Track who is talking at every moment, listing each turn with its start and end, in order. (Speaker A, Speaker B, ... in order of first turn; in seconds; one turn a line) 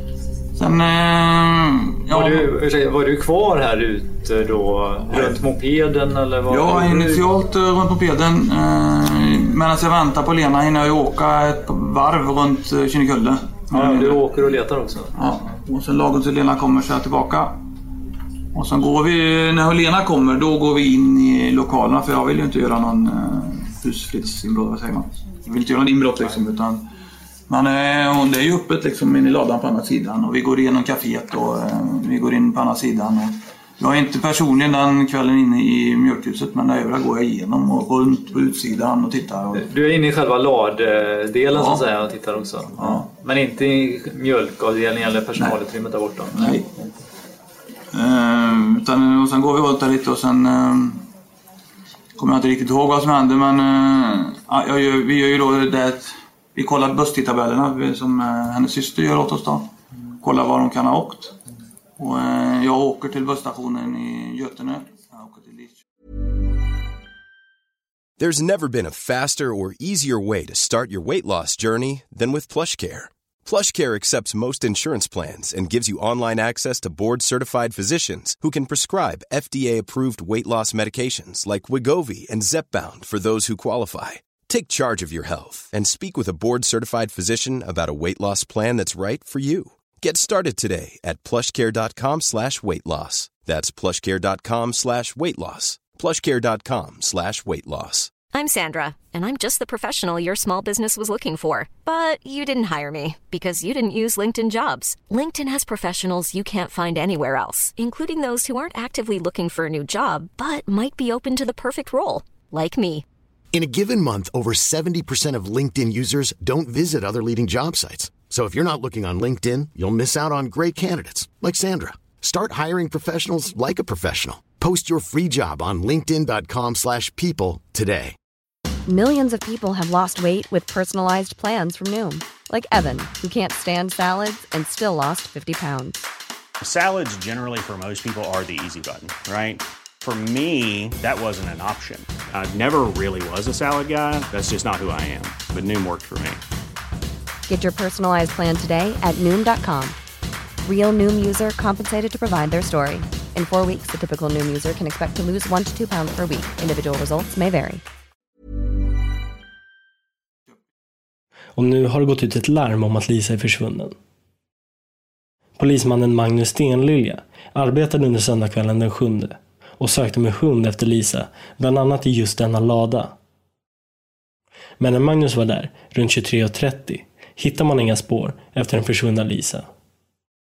Speaker A: 0.6-2.5
Speaker B: 2.1-7.3
Speaker A: 5.1-5.4
Speaker A: 6.5-14.2
Speaker B: 13.7-15.6
Speaker A: 15.2-17.6
Speaker A: 18.5-26.8
Speaker A: 27.5-39.6
Speaker B: 39.5-46.7
Speaker A: 41.5-41.8
Speaker A: 42.8-43.1
Speaker A: 46.3-46.6
Speaker A: 47.9-51.0
Speaker A: 52.2-59.7
Speaker A: 60.2-61.3
Speaker A: 62.0-65.8
Speaker C: 68.2-69.4
Speaker C: 70.0-70.5
Speaker C: 71.1-71.8
Speaker C: 73.7-78.9
Speaker C: 79.5-89.6
Speaker C: 90.2-90.8
Speaker C: 91.5-98.0
Speaker D: 98.3-113.0
Speaker E: 113.5-128.1
Speaker F: 128.8-136.0
Speaker G: 136.6-146.4
Speaker F: 147.5-150.0
Speaker F: 150.6-157.8
Speaker H: 161.6-163.9
Speaker H: 165.6-173.1
Speaker H: 174.8-179.7